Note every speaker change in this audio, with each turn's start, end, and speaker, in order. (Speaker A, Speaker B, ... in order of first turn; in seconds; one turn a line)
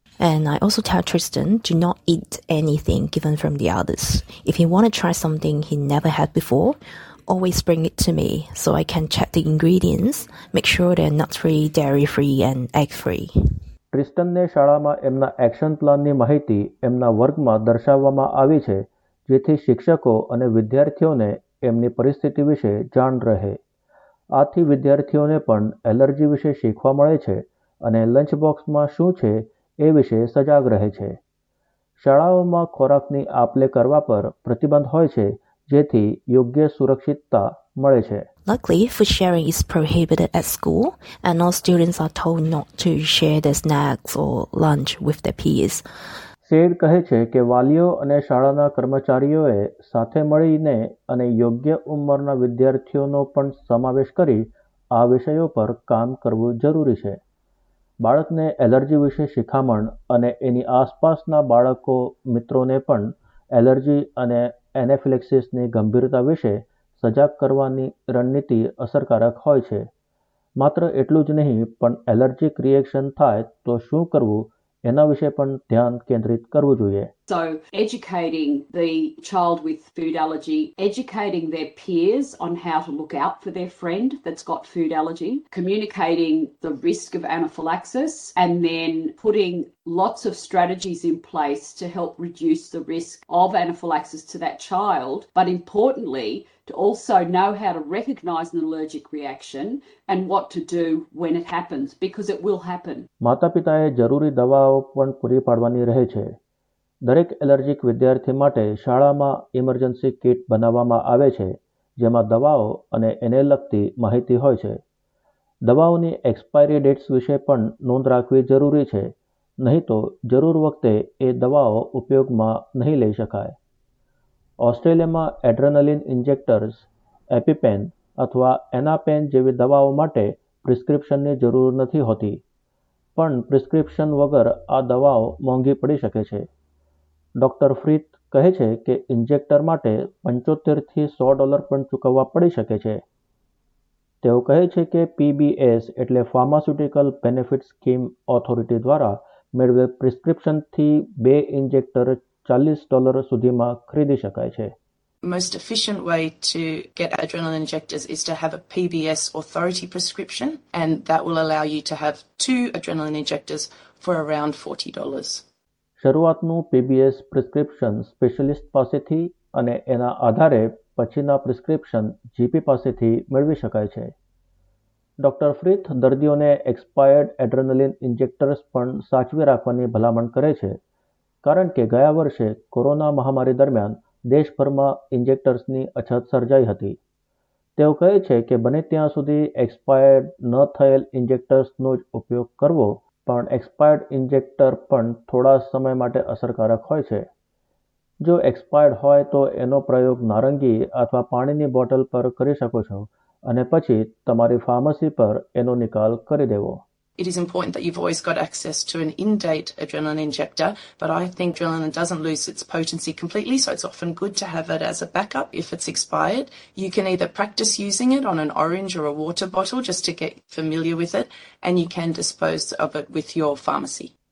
Speaker A: 0.2-6.8
Speaker A: 7.3-13.3
Speaker B: 13.9-23.6
Speaker B: 24.4-31.2
Speaker B: 32.0-38.3
Speaker A: 38.5-45.8
Speaker B: 46.4-57.2
Speaker B: 58.0-69.8
Speaker B: 70.6-77.1
Speaker C: 77.3-103.1
Speaker B: 103.2-106.3
Speaker B: 107.0-114.8
Speaker B: 115.7-123.6
Speaker B: 124.6-132.4
Speaker B: 133.2-136.5
Speaker B: 137.4-143.0
Speaker B: 144.2-154.7
Speaker D: 155.2-165.4
Speaker B: 166.0-174.1
Speaker B: 175.2-180.8
Speaker B: 181.4-187.0
Speaker B: 187.8-197.3
Speaker B: 198.2-206.8
Speaker D: 207.2-224.1